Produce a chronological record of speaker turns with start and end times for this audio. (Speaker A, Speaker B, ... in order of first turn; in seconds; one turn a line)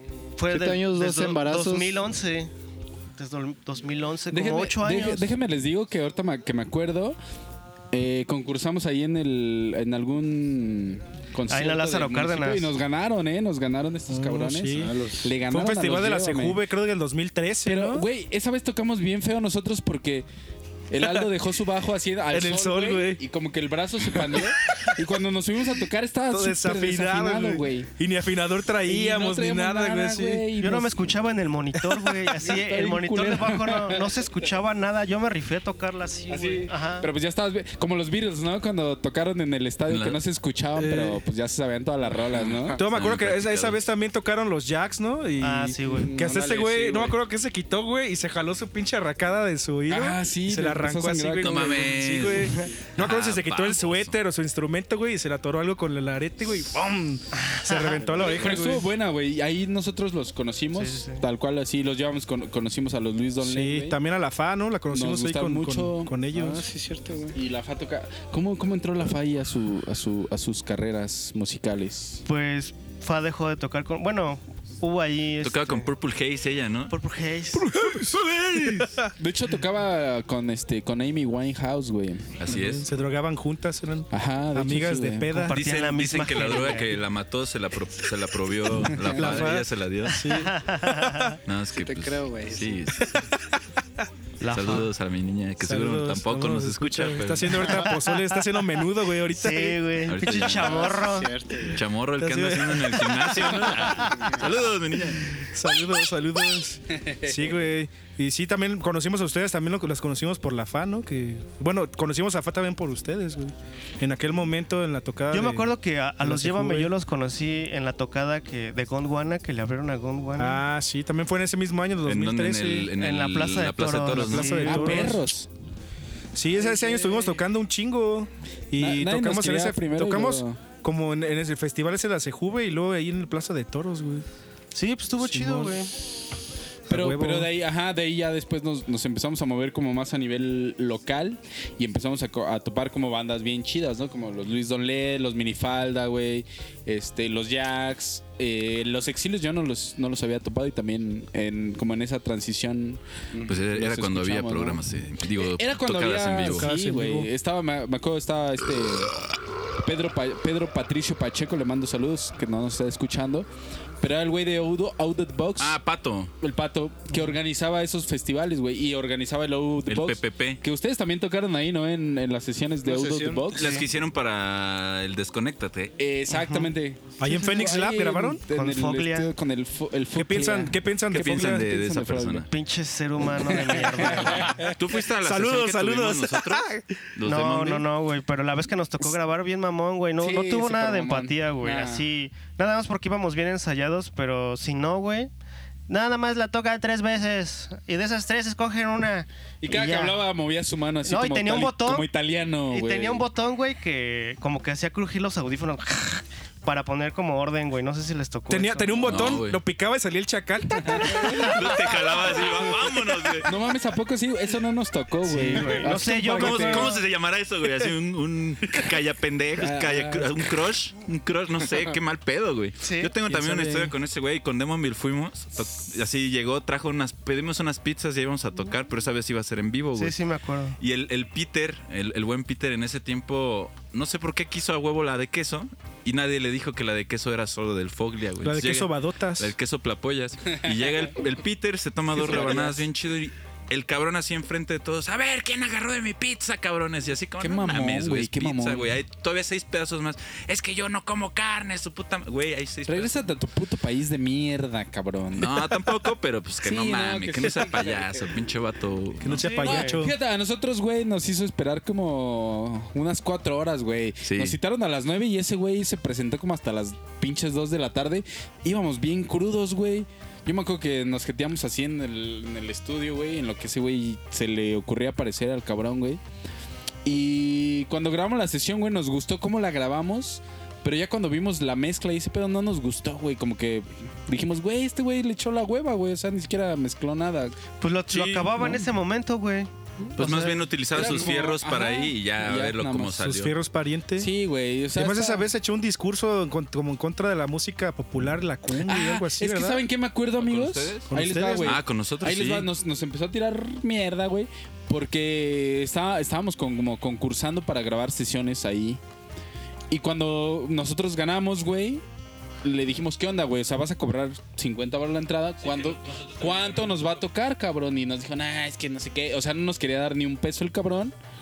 Speaker A: 0.4-2.5
Speaker B: 0.5-2.0
Speaker A: 3.2-5.3
Speaker C: 4.3-7.2
Speaker C: 7.9-16.6
Speaker A: 11.5-12.7
Speaker D: 14.1-14.9
Speaker B: 14.7-15.4
Speaker D: 15.4-18.0
Speaker C: 17.6-20.3
Speaker C: 20.9-27.9
Speaker D: 22.3-23.2
Speaker D: 26.3-30.5
Speaker C: 28.9-30.9
Speaker A: 30.6-37.1
Speaker D: 31.9-32.3
Speaker C: 32.4-34.1
Speaker C: 36.4-42.8
Speaker E: 39.9-40.2
Speaker D: 40.8-41.2
Speaker D: 42.8-58.9
Speaker E: 42.9-43.8
Speaker A: 45.4-46.1
Speaker C: 45.9-46.6
Speaker B: 46.2-47.1
Speaker C: 49.9-51.9
Speaker E: 51.4-54.1
Speaker A: 57.4-57.9
Speaker B: 58.0-58.5
Speaker C: 58.2-64.0
Speaker A: 60.7-61.2
Speaker D: 63.4-66.6
Speaker C: 64.9-66.1
Speaker B: 66.3-67.3
Speaker C: 67.3-72.2
Speaker A: 72.2-75.9
Speaker E: 75.4-76.9
Speaker A: 76.9-77.7
Speaker D: 77.7-79.1
Speaker E: 77.8-78.9
Speaker C: 79.2-82.4
Speaker E: 82.4-82.9
Speaker D: 82.5-85.6
Speaker C: 84.1-85.5
Speaker A: 85.3-86.9
Speaker E: 85.5-90.2
Speaker D: 89.1-91.3
Speaker A: 90.2-91.3
Speaker E: 91.4-93.3
Speaker B: 91.7-92.8
Speaker A: 94.4-94.9
Speaker E: 94.5-97.8
Speaker D: 95.6-99.9
Speaker A: 97.6-98.0
Speaker A: 99.3-101.3
Speaker E: 100.1-100.9
Speaker B: 100.4-101.8
Speaker E: 101.7-105.4
Speaker D: 102.2-104.2
Speaker D: 105.4-116.9
Speaker C: 107.0-107.4
Speaker A: 115.3-120.6
Speaker D: 120.4-122.9
Speaker E: 122.0-124.7
Speaker A: 123.0-125.2
Speaker D: 124.2-125.2
Speaker C: 124.7-125.5
Speaker D: 126.3-134.2
Speaker C: 128.8-130.6
Speaker A: 134.7-135.9
Speaker D: 135.2-135.9
Speaker D: 136.9-137.5
Speaker C: 136.9-154.8
Speaker E: 153.4-156.7
Speaker C: 155.3-159.1
Speaker D: 156.5-157.3
Speaker C: 159.8-163.5
Speaker C: 164.0-165.8
Speaker E: 165.6-166.3
Speaker C: 166.4-173.8
Speaker E: 169.9-170.6
Speaker B: 172.8-173.5
Speaker A: 173.5-173.8
Speaker E: 173.5-175.9
Speaker C: 176.0-182.5
Speaker A: 176.3-176.7
Speaker D: 177.2-178.4
Speaker A: 178.5-179.3
Speaker D: 180.1-181.6
Speaker E: 181.1-182.5
Speaker A: 182.5-184.6
Speaker C: 183.3-184.6
Speaker E: 184.6-187.8
Speaker D: 185.1-186.8
Speaker A: 187.2-195.3
Speaker C: 190.2-192.0
Speaker A: 195.9-200.2
Speaker C: 199.6-203.3
Speaker A: 201.0-202.1
Speaker A: 202.7-209.3
Speaker D: 208.5-211.5
Speaker E: 209.1-209.6
Speaker C: 210.8-211.4
Speaker E: 211.3-213.5
Speaker C: 213.4-216.9
Speaker A: 215.3-216.9
Speaker D: 215.3-216.9
Speaker E: 216.3-230.2
Speaker C: 219.6-220.5
Speaker A: 222.8-223.1
Speaker C: 223.3-223.9
Speaker A: 229.9-230.8
Speaker E: 230.8-253.3
Speaker D: 238.4-239.5
Speaker C: 240.7-241.1
Speaker D: 242.2-242.8
Speaker C: 242.3-242.7
Speaker C: 247.4-248.9
Speaker C: 252.9-255.8
Speaker E: 255.3-259.5
Speaker C: 256.6-258.4
Speaker D: 259.2-260.1
Speaker A: 259.3-260.0
Speaker C: 259.6-276.2
Speaker E: 264.2-264.6
Speaker C: 277.0-287.6
Speaker A: 287.8-290.6
Speaker D: 288.1-288.8
Speaker E: 290.2-293.5
Speaker C: 290.9-293.3
Speaker D: 293.2-294.3
Speaker C: 294.2-295.5
Speaker D: 294.9-299.8
Speaker C: 298.8-309.0
Speaker E: 300.4-301.1
Speaker D: 301.1-301.8
Speaker E: 301.6-302.7
Speaker C: 309.9-312.0
Speaker C: 312.6-321.1
Speaker E: 315.6-317.0